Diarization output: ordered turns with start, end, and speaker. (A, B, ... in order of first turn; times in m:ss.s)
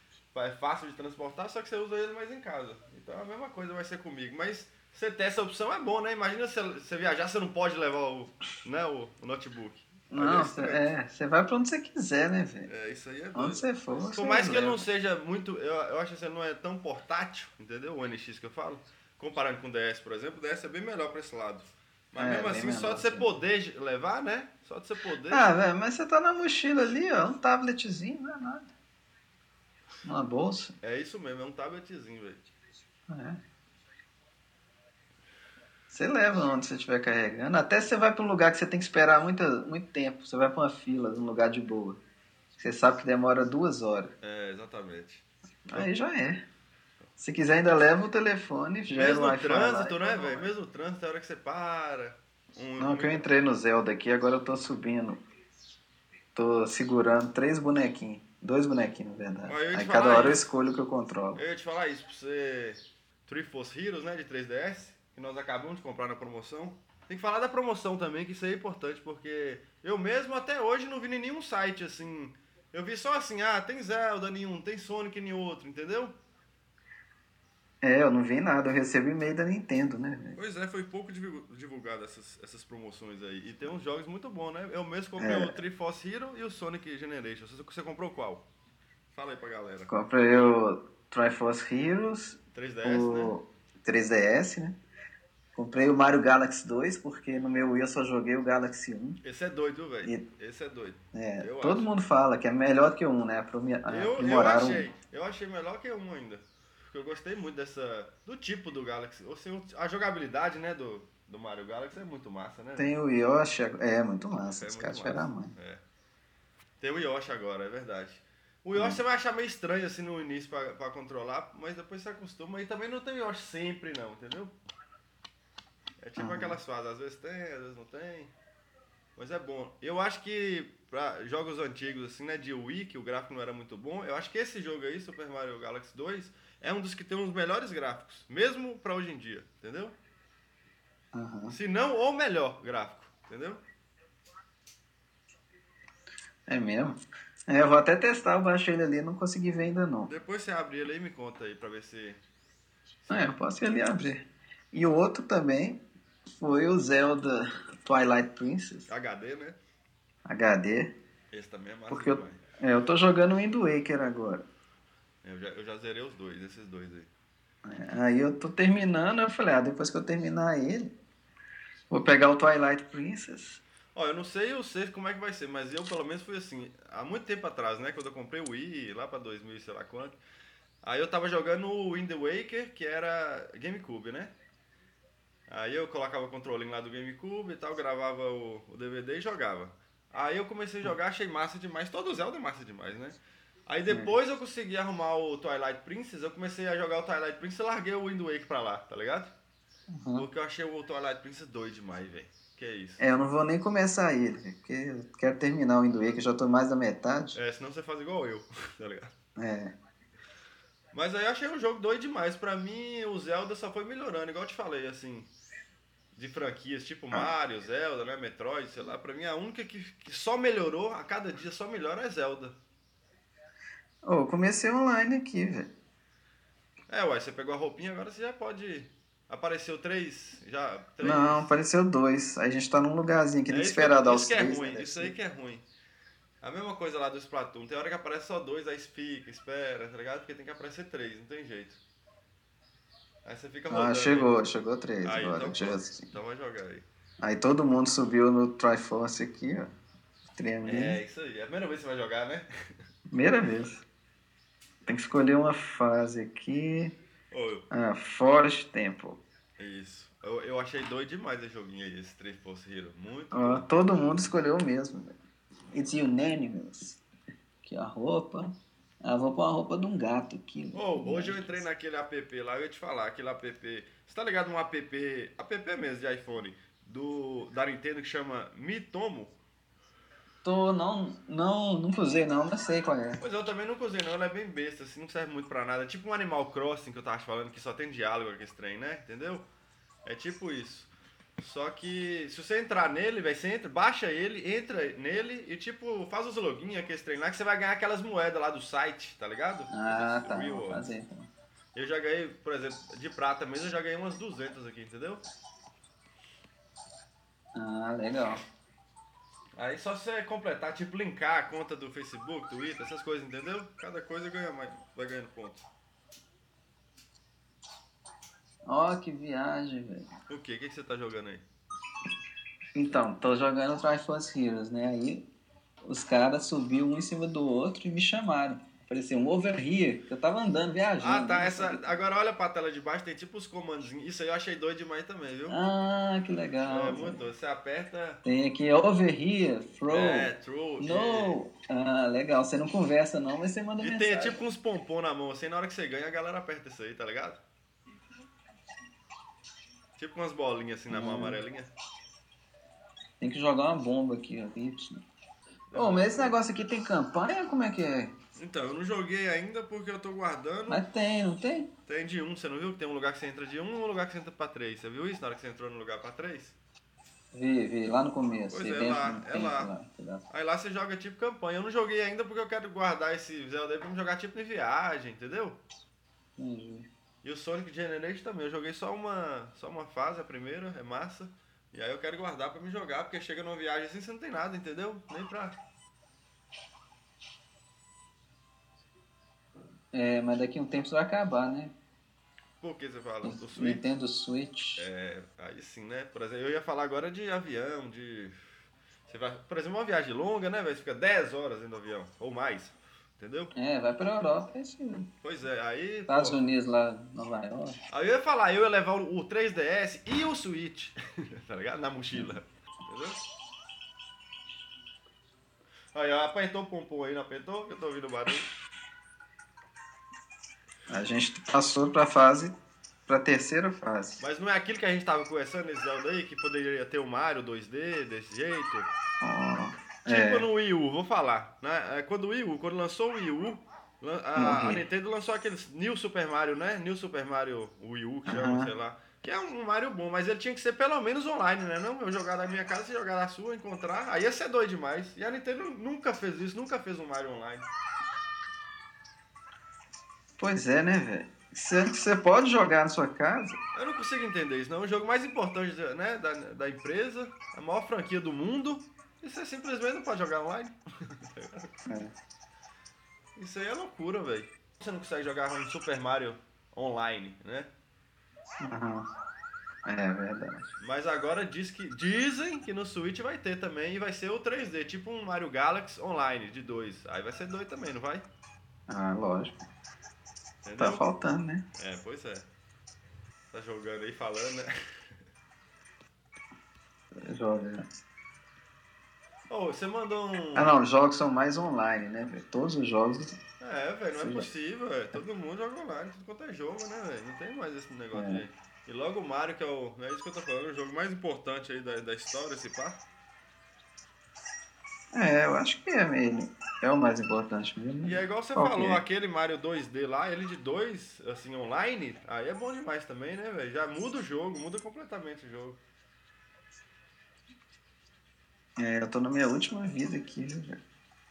0:00.3-0:10.9 A
0:10.1-0:12.7 B
0:12.7-0:25.5 A
0:13.3-0:14.8 B
0:22.2-0:23.3 B
0:25.3-0:28.7 B
0:30.0-0:30.7 B
0:30.8-0:32.4 A
0:33.1-0:33.4 B
0:35.9-0:42.0 B
0:42.6-0:44.1 B
0:44.2-0:45.9 A
0:45.7-0:46.4 B
0:47.2-0:50.5 B
0:48.9-0:53.3 A
0:52.8-0:55.2 B
0:56.4-1:01.4 B
0:59.5-1:00.4 A
1:01.3-1:16.1 A
1:17.8-1:20.4 B
1:20.4-1:28.4 A
1:25.2-1:25.5 B
1:29.1-1:29.9 A
1:29.9-1:34.8 B
1:32.5-1:33.3 A
1:35.5-1:39.2 B
1:39.2-1:41.9 A
1:41.1-1:44.9 B
1:43.9-1:52.9 A
1:52.8-1:55.5 B
1:54.4-1:55.8 A
1:56.8-2:04.5 A
1:58.7-1:59.0 B
2:06.0-2:08.3 A
2:06.2-2:06.6 B
2:09.2-2:19.9 A
2:21.1-2:21.6 B
2:21.5-2:23.6 A
2:26.5-2:26.9 B
2:27.5-2:30.1 B
2:30.1-2:32.2 A
2:33.0-2:33.4 A
2:33.1-2:35.8 B
2:36.4-2:38.9 B
2:38.9-2:39.6 A
2:40.2-2:40.9 B
2:41.3-2:42.4 A
2:41.9-2:44.4 B
2:45.2-2:47.1 A
2:47.6-2:50.9 B
2:51.9-2:53.6 B
2:53.9-3:00.2 A
3:00.8-3:04.3 A
3:05.5-3:19.3 A
3:13.9-3:14.1 B
3:19.9-3:20.2 B
3:20.1-3:23.0 A
3:23.0-3:27.4 B
3:27.3-3:29.1 A
3:29.4-3:29.7 B
3:30.9-3:35.3 A
3:36.1-3:42.6 A
3:44.0-3:45.7 B
3:46.9-3:51.5 A
3:51.0-3:55.1 B
3:53.5-3:55.6 A
3:56.4-4:01.8 A
4:03.2-4:04.3 A
4:03.7-4:06.1 B
4:05.0-4:06.8 A
4:07.2-4:09.7 B
4:10.4-4:11.0 B
4:10.6-4:12.4 A
4:13.1-4:13.8 B
4:14.8-4:16.9 B
4:17.3-4:17.6 A
4:17.7-4:19.2 B
4:19.6-4:23.7 A
4:23.3-4:25.1 B
4:25.7-4:27.0 B
4:27.6-4:28.5 B
4:29.0-4:31.6 B
4:30.7-4:39.4 A
4:40.4-4:43.2 B
4:43.2-4:49.4 A
4:50.0-5:00.9 A
4:59.7-5:01.3 B
5:01.7-5:05.2 A
5:07.5-5:08.4 B
5:09.6-5:15.7 A
5:18.6-5:20.1 B
5:20.3-5:21.4 A
5:22.7-5:25.2 B
5:25.8-5:32.0 B
5:31.0-5:35.6 A
5:35.5-5:37.2 B
5:36.7-5:38.2 A
5:38.2-5:44.4 B
5:39.9-5:41.4 A
5:43.8-5:47.4 A
5:50.0-5:51.7 A
5:50.9-5:51.4 B
5:53.2-5:55.0 B
5:55.7-5:56.4 A
5:55.7-5:58.1 B
5:58.4-6:00.8 A
6:00.7-6:01.7 B
6:01.8-6:06.6 A
6:07.3-6:10.2 B
6:08.5-6:09.7 A
6:10.3-6:15.6 A
6:16.4-6:16.9 B
6:17.2-6:25.6 A
6:29.9-6:31.7 B
6:32.6-6:33.9 A
6:33.2-6:34.9 B
6:34.8-6:38.3 A
6:39.1-6:43.5 A
6:43.6-6:45.1 B
6:45.2-6:46.4 A
6:46.1-6:47.8 B
6:47.9-6:53.2 A
6:55.9-6:58.5 A
7:00.9-7:02.6 B
7:03.1-7:04.2 B
7:04.2-7:08.9 A
7:09.2-7:10.5 B
7:10.0-7:27.7 A
7:14.4-7:14.8 B
7:18.3-7:18.7 B
7:30.4-7:33.6 B
7:33.7-7:41.7 A
7:41.9-7:42.1 B
7:43.4-7:47.7 A
7:48.6-7:49.0 B
7:49.8-7:50.7 B
7:50.8-7:58.2 A
7:58.9-7:59.6 B
8:00.6-8:01.0 A
8:00.8-8:01.6 B
8:01.8-8:02.5 A
8:03.5-8:04.7 A
8:07.1-8:07.8 B
8:09.5-8:10.8 A
8:10.5-8:13.4 B
8:13.6-8:23.0 A
8:14.2-8:14.4 B
8:18.1-8:18.4 B
8:25.1-8:29.0 B
8:28.0-8:35.8 A
8:38.8-8:40.8 B